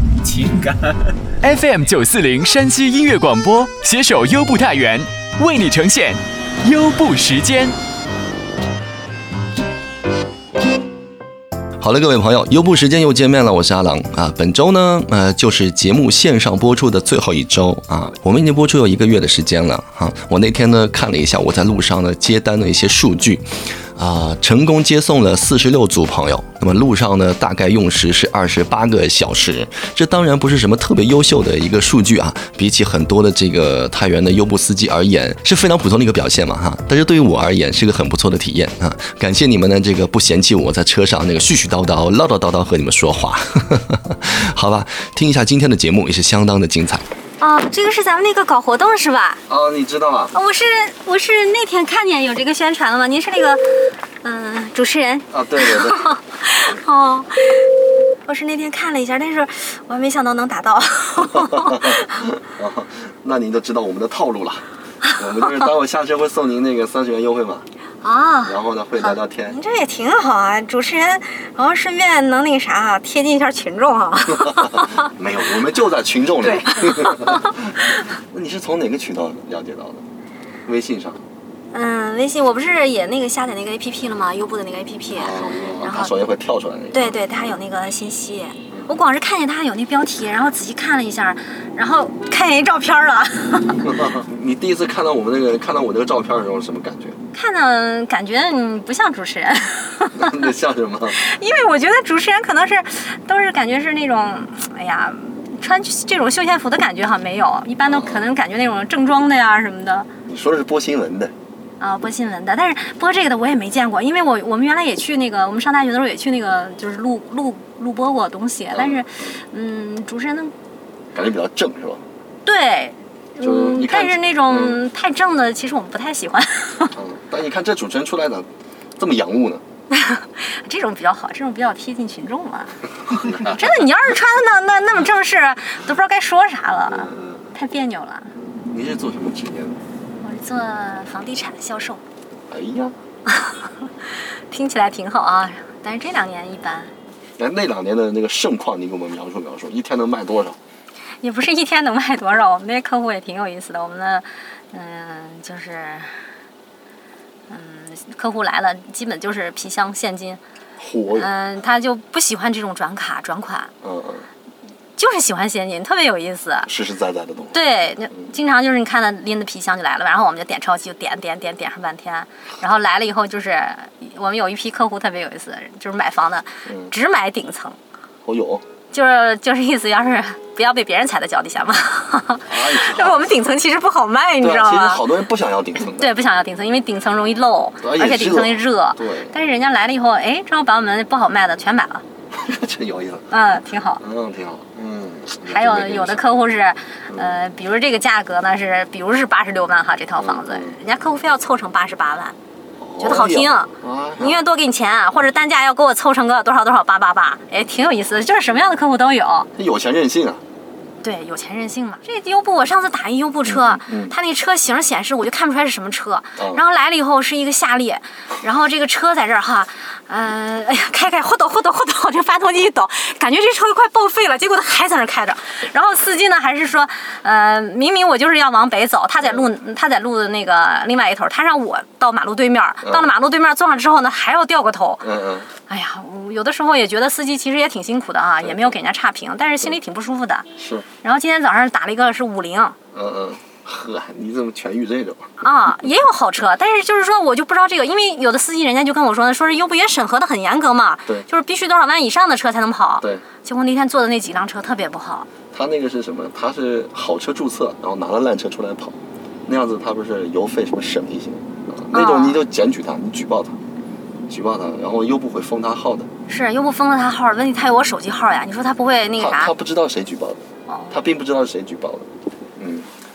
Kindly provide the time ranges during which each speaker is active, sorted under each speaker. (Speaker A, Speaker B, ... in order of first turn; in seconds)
Speaker A: 0.3-0.8, 1.4-7.8
Speaker B: 11.8-47.0, 49.5-50.3, 55.3-56.1, 61.7-64.7, 65.2-67.7, 68.5-69.6, 74.4-77.7, 78.3-80.0, 80.7-81.2, 85.1-87.5, 93.8-97.2, 100.2-101.2, 107.8-108.2, 110.3-111.3, 118.7-119.4, 121.1-122.0, 123.4-124.8, 127.0-129.6, 133.2-133.6, 136.9-137.5, 138.5-139.8, 142.5-142.9, 147.4-150.6, 160.8-161.3, 163.8-164.3, 166.7-167.6, 176.7-176.9, 178.2-178.7, 182.5-183.3, 184.4-186.2, 187.8-189.3, 192.3-193.3, 194.0-196.3, 197.1-197.4, 200.2-200.8, 202.8-204.4, 209.6-210.4, 213.5-214.2, 216.4-216.6, 229.2-229.5, 232.8-233.1, 235.0-235.5, 238.4-238.8, 240.6-240.9, 242.9-245.4, 255.5-263.6, 264.3-266.1, 269.2-272.9
Speaker C: 47.4-49.4, 50.3-57.7, 58.2-62.1, 68.0-75.1, 76.4-77.7, 81.7-86.1, 86.9-93.9, 97.3-100.5, 101.1-110.1, 111.8-120.5, 122.5-127.0, 129.9-138.3, 140.2-142.0, 143.3-143.7, 144.5-146.9, 151.2-156.1, 157.5-160.4, 161.1-163.7, 165.0-166.7, 167.5-177.8, 178.9-185.1, 185.8-192.0, 193.3-194.0, 195.4-202.4, 203.0-209.5, 211.0-235.1, 235.7-240.5, 241.0-242.8, 245.4-255.3, 261.9-262.4, 266.3-269.5, 270.7-271.0